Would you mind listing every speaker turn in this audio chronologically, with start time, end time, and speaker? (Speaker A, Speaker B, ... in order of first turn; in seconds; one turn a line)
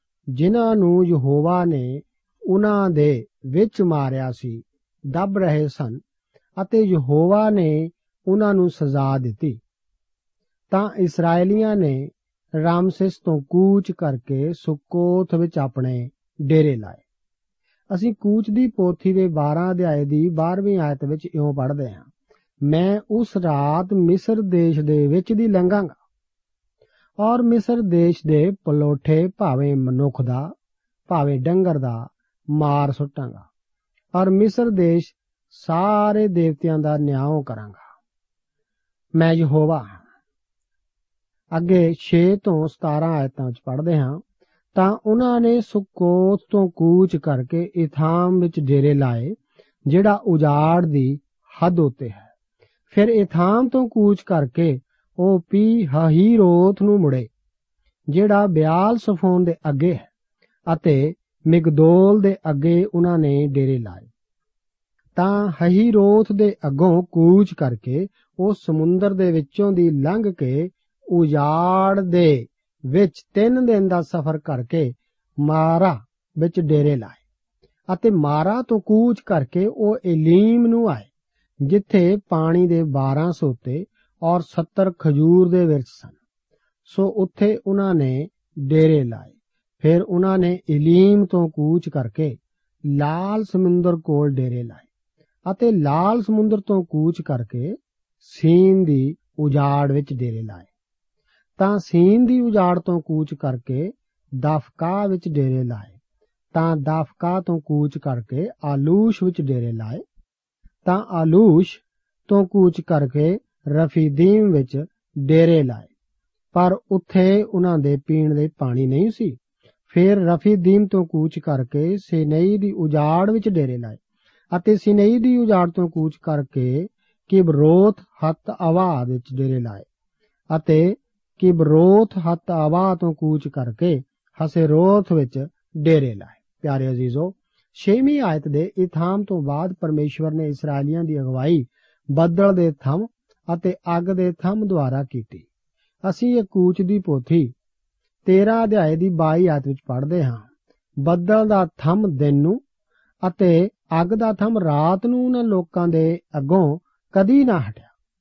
Speaker A: 0.3-6.0
Speaker A: 6.6-9.6
Speaker A: 10.7-17.0
Speaker A: 17.9-22.1
Speaker A: 22.6-26.0
Speaker A: 27.2-30.5
Speaker A: 31.1-33.5
Speaker A: 34.1-37.9
Speaker A: 39.1-40.0
Speaker A: 41.5-44.2
Speaker A: 44.7-49.4
Speaker A: 49.9-52.3
Speaker A: 52.9-57.3
Speaker A: 58.1-60.1
Speaker A: 60.7-64.1
Speaker A: 65.1-77.2
Speaker A: 77.9-81.1
Speaker A: 81.6-86.1
Speaker A: 86.9-94.8
Speaker A: 95.5-100.7
Speaker A: 101.6-105.9
Speaker A: 106.5-110.0
Speaker A: 110.8-115.9
Speaker A: 116.5-119.4
Speaker A: 119.9-124.0
Speaker A: 124.5-129.8
Speaker A: 130.5-145.4
Speaker A: 146.0-147.5
Speaker A: 148.2-150.5
Speaker A: 151.0-152.6
Speaker A: 153.2-157.9